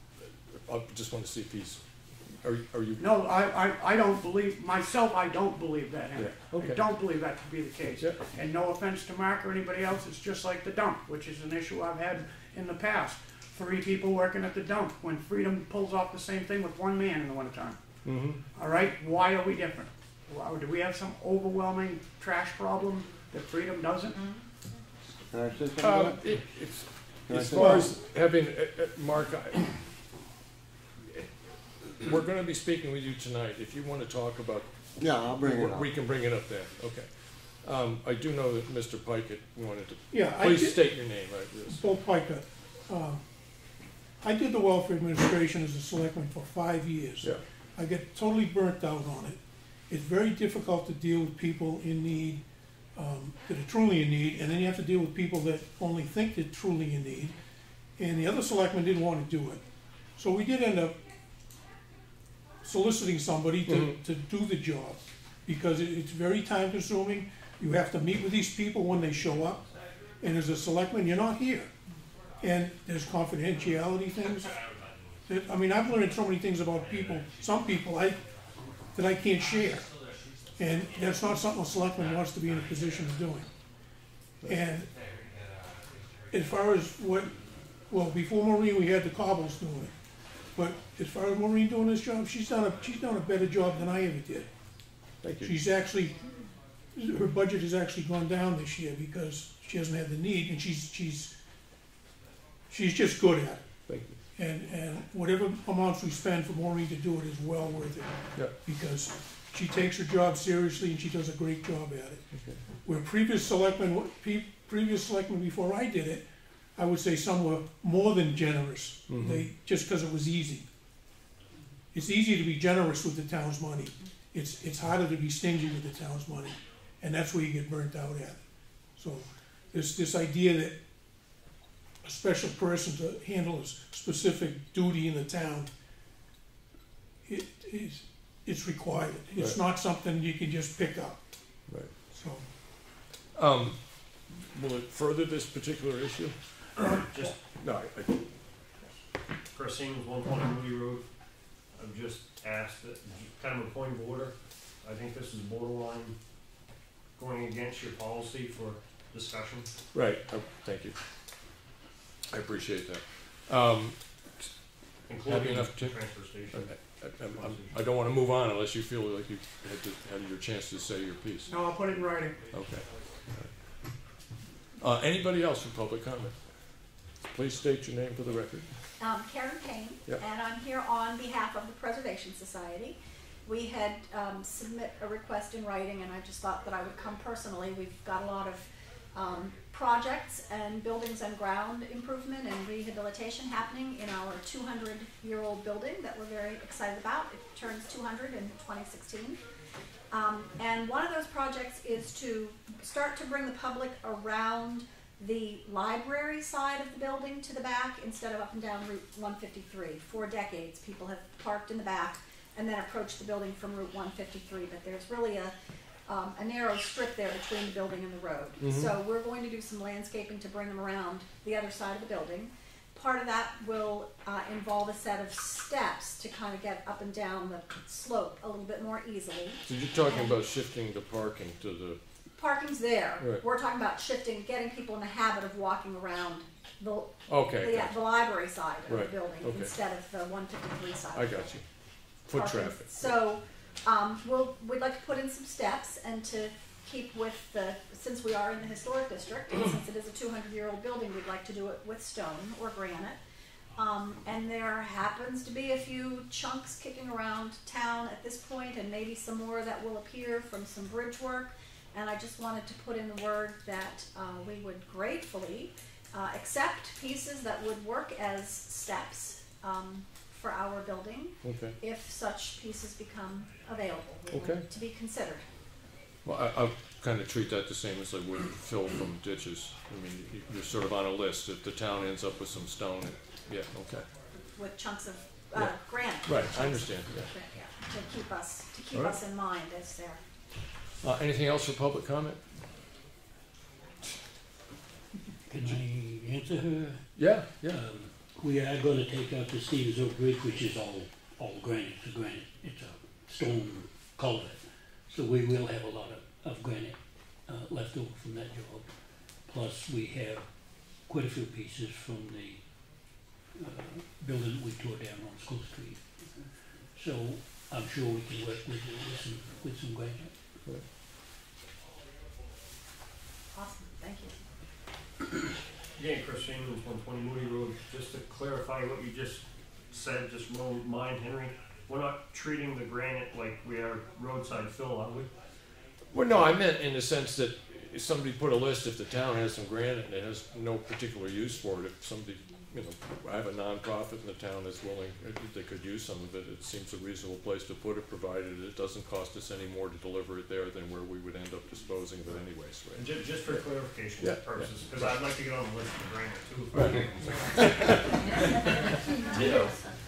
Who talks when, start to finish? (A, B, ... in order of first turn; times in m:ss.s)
0:00.7-0:03.1 A
0:03.0-0:17.8 B
0:06.2-0:07.0 A
0:08.0-0:08.2 A
0:18.0-0:18.4 A
0:18.5-0:24.2 B
0:25.3-0:26.4 C
0:25.8-0:29.8 A
0:27.3-0:28.0 C
0:32.0-0:41.8 A
0:35.0-0:35.9 C
0:40.1-0:43.2 D
0:44.2-0:52.4 D
0:52.9-0:57.4 D
0:58.0-1:01.0 D
1:02.6-1:09.6 D
1:03.7-1:04.0 A
1:10.2-1:11.7 D
1:12.4-1:14.6 D
1:15.3-1:18.2 D
1:18.9-1:19.9 D
1:20.6-1:23.5 D
1:24.4-1:24.9 D
1:26.3-1:29.9 D
1:30.6-1:34.5 D
1:35.2-1:35.6 A
1:35.4-1:36.3 D
1:37.0-1:41.4 D
1:42.7-1:43.7 D
1:43.9-1:44.2 A
1:44.4-1:52.3 D
1:52.3-1:52.6 A
1:52.8-2:00.7 D
1:59.1-1:59.5 A
2:01.9-2:08.4 D
2:08.9-2:10.8 D
2:12.0-2:15.7 D
2:17.3-2:21.2 D
2:19.4-2:19.6 A
2:21.7-2:22.0 A
2:22.0-2:22.5 D
2:23.3-2:28.3 A
2:26.8-2:27.4 E
2:29.6-2:31.0 E
2:31.8-2:36.2 E
2:37.2-2:39.7 E
2:39.9-2:41.0 A
2:42.3-2:44.6 A
2:45.1-2:47.7 E
2:45.2-2:51.5 A
2:51.5-2:52.5 B
2:52.5-2:53.5 A
2:54.8-2:56.5 A
2:57.3-2:58.7 A
2:59.0-3:19.4 F
3:20.1-3:35.5 F
3:36.1-3:50.3 F
3:38.6-3:39.0 A
3:49.6-3:52.0 A
3:52.4-4:01.5 F
3:57.3-3:58.0 A
3:58.9-3:59.7 A
4:01.1-4:01.6 A
4:02.3-4:03.2 A
4:02.3-4:13.2 F
4:13.8-4:35.5 F
4:31.4-4:31.8 A
4:34.3-4:34.7 A
4:36.2-4:44.1 A
4:44.5-4:50.2 F
4:45.6-4:47.3 A
4:48.9-4:49.2 A
4:51.0-4:52.4 A
4:55.5-5:08.9 G
4:57.2-4:57.8 A
5:09.5-5:10.5 G
5:11.1-5:12.6 G
5:13.6-5:16.3 G
5:16.9-5:20.4 G
5:23.5-5:24.4 F
5:26.0-5:35.3 E
5:36.1-5:53.7 A
5:53.0-5:57.9 E
5:54.2-5:55.2 A
5:56.7-5:58.9 A